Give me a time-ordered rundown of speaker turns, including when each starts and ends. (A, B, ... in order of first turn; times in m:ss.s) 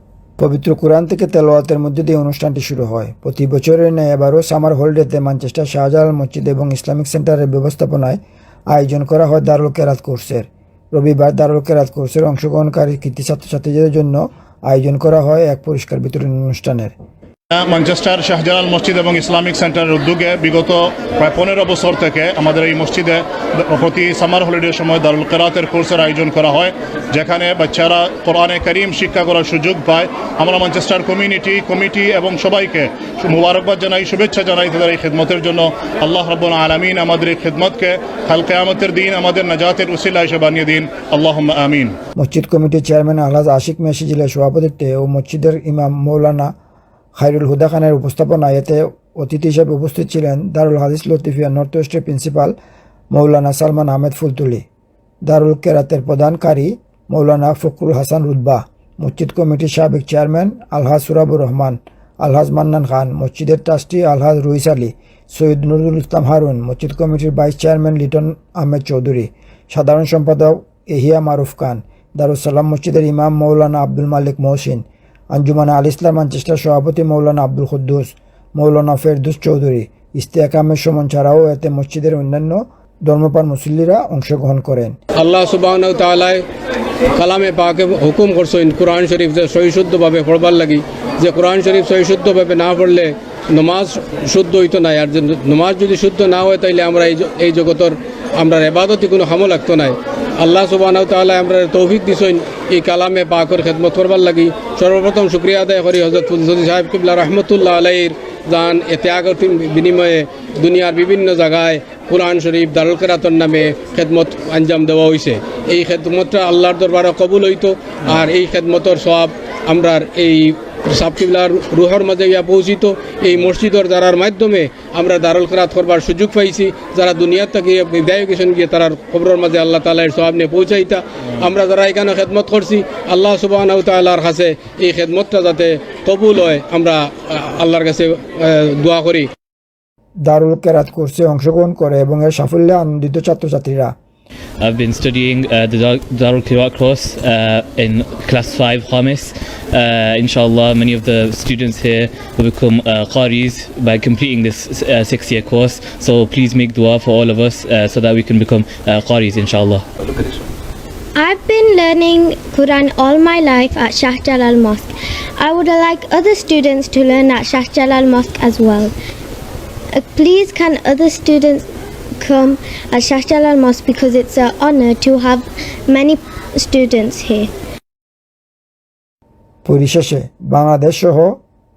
0:00.4-0:08.2 A
0:08.7-0:16.9 A
0:17.5-0:41.9 B
0:42.2-0:46.5 A
0:47.2-0:52.5 A
0:53.1-0:54.6 A
0:55.2-1:25.0 A
1:25.2-1:26.4 C
1:27.2-2:19.3 C
2:20.2-2:23.9 A
2:24.6-2:39.8 D
2:41.2-2:48.9 E
2:50.0-2:51.6 E
2:52.2-2:57.5 E
2:59.6-3:01.4 A